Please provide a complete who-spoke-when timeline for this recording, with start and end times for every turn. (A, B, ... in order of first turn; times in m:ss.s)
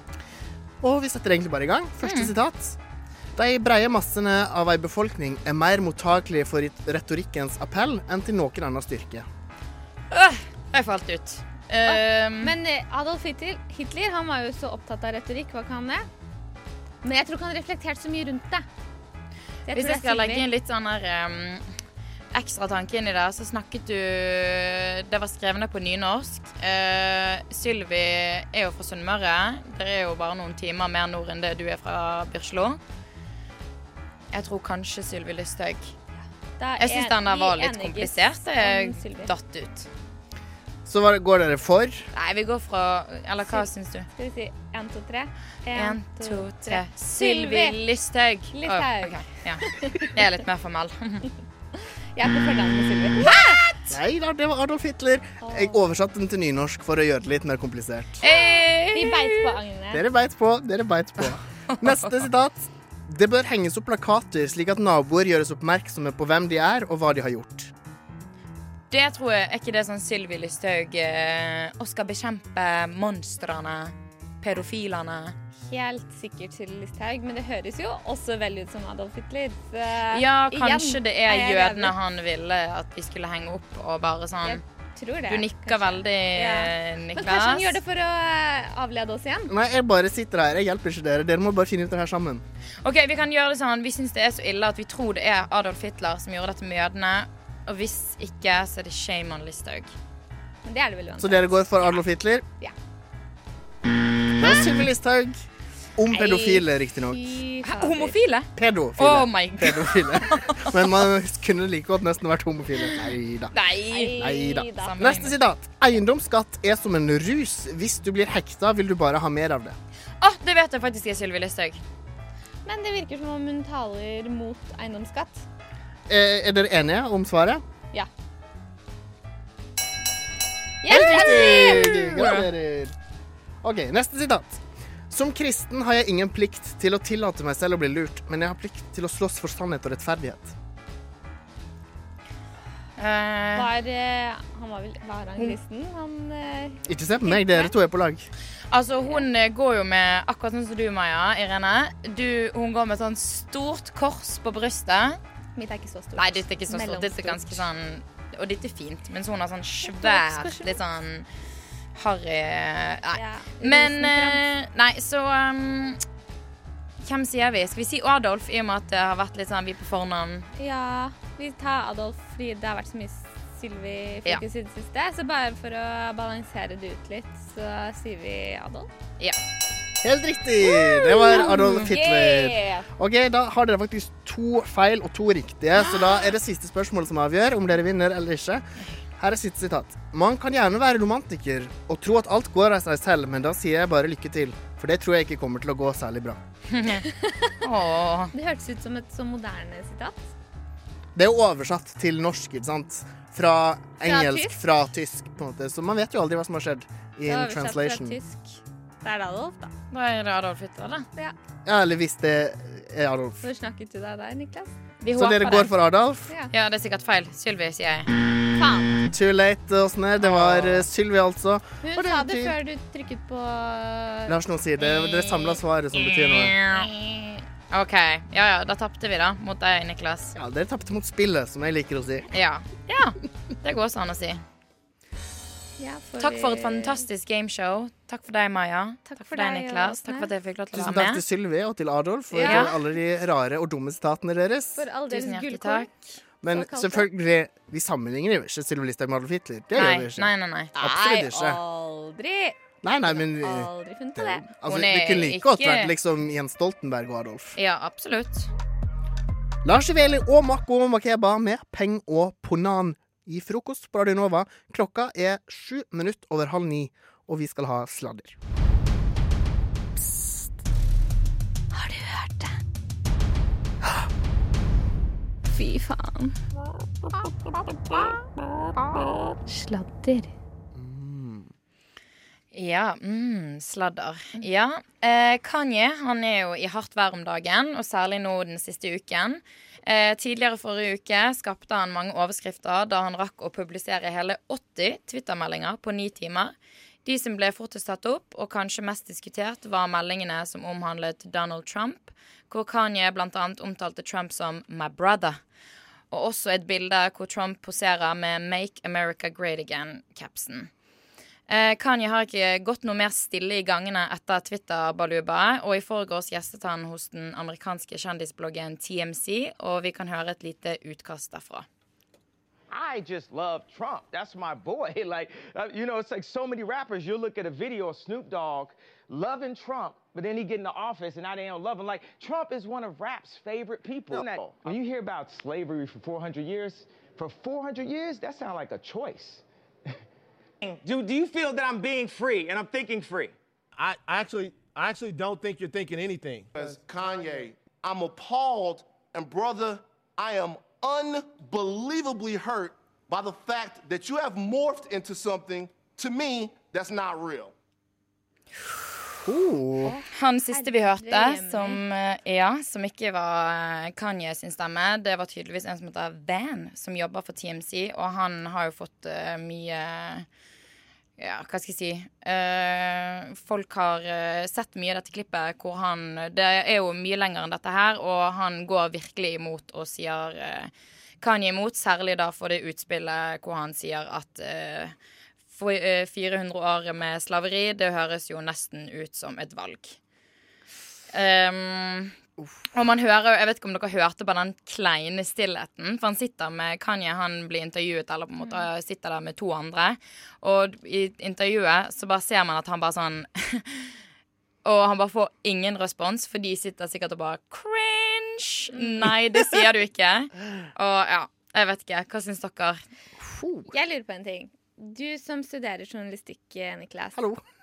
0:00.8-0:02.8 A
0:02.0-0:02.3 B
0:03.4-0:09.3 A
0:10.1-0:12.6 B
0:11.9-0:16.1 C
0:17.0-0:18.6 C
0:19.7-0:20.5 C
0:19.7-0:21.6 B
0:22.3-0:32.8 B
0:34.3-0:35.9 B
0:36.6-0:39.3 C
0:36.8-0:39.9 B
0:40.8-0:42.1 A
0:42.1-0:44.1 B
0:43.5-0:47.8 C
0:45.7-0:51.3 B
0:48.5-0:50.1 C
0:52.2-0:53.6 C
0:53.2-0:53.8 B
0:53.9-0:58.2 A
0:55.4-0:55.8 C
0:58.2-0:59.6 B
0:58.2-1:00.0 C
0:59.9-1:07.7 A
1:01.2-1:02.2 B
1:08.9-1:15.4 B
1:15.6-1:21.9 C
1:20.1-1:24.6 B
1:24.4-1:29.5 C
1:25.3-1:27.8 B
1:29.5-1:32.4 A
1:32.8-1:39.9 B
1:40.6-1:41.8 C
1:41.2-1:42.4 A
1:44.4-1:45.5 A
1:46.0-1:47.4 A
1:46.1-1:48.2 C
1:47.6-1:50.8 B
1:48.6-1:53.5 A
1:53.5-1:54.2 B
1:53.9-1:55.0 C
1:54.2-1:59.8 A
1:54.8-1:55.4 B
2:00.2-2:01.8 B
2:02.7-2:05.5 C
2:06.1-2:07.6 A
2:10.8-2:12.1 C
2:10.9-2:13.0 A
2:12.1-2:12.5 B
2:13.6-2:20.6 A
2:23.0-2:23.7 B
2:23.6-2:27.7 C
2:26.9-2:28.3 A
2:28.7-2:35.2 B
2:35.6-2:37.7 C
2:36.2-2:41.3 B
2:39.8-2:40.8 C
2:42.0-2:46.0 B
2:43.1-2:44.4 C
2:47.0-2:50.5 B
2:50.6-2:58.9 C
3:00.0-3:08.6 A
3:00.6-3:02.9 C
3:01.4-3:01.8 B
3:09.2-3:16.4 A
3:16.7-3:17.0 B
3:17.1-3:17.6 C
3:17.6-3:18.3 B
3:18.3-3:20.3 C
3:21.2-3:28.2 A
3:24.0-3:24.6 C
3:27.3-3:29.7 C
3:29.9-3:31.1 B
3:31.6-3:33.4 A
3:33.4-3:34.7 C
3:35.0-3:35.8 B
3:35.2-3:36.3 A
3:36.5-3:38.1 B
3:38.6-3:39.0 C
3:39.1-3:42.6 A
3:40.2-3:40.9 B
3:41.8-3:44.3 C
3:44.3-3:46.6 A
3:44.8-3:50.3 B
3:50.4-3:52.3 A
3:52.3-3:54.4 B
3:55.8-3:57.0 C
3:56.2-4:01.2 B
3:59.1-4:00.3 C
4:00.7-4:04.8 A
4:02.3-4:02.7 C
4:02.4-4:02.7 B
4:04.8-4:06.0 C
4:05.1-4:05.9 B
4:06.4-4:11.6 A
4:06.5-4:07.1 C
4:09.8-4:10.7 B
4:10.8-4:14.5 C
4:12.8-4:17.6 A
4:14.7-4:15.9 B
4:17.6-4:18.5 B
4:19.6-4:28.4 A
4:31.7-4:32.6 C
4:35.5-4:36.4 C
4:38.8-4:40.3 C
4:40.7-4:41.5 A
4:42.5-5:05.4 B
5:06.1-5:10.7 B
5:11.5-5:21.7 B
5:22.7-5:39.4 D
5:40.8-5:41.5 D
5:42.4-5:43.3 D
5:43.8-5:46.8 E
5:46.6-5:57.5 F
5:59.2-6:00.0 A
5:59.8-6:01.8 C
6:00.1-6:10.3 B
6:11.2-6:24.9 B
6:25.5-6:30.0 B
6:31.1-6:32.2 B
6:32.4-6:32.7 A
6:32.7-6:44.0 B
6:44.6-6:52.8 B
6:53.2-6:53.7 A
6:53.7-6:57.2 C
6:57.2-6:57.4 A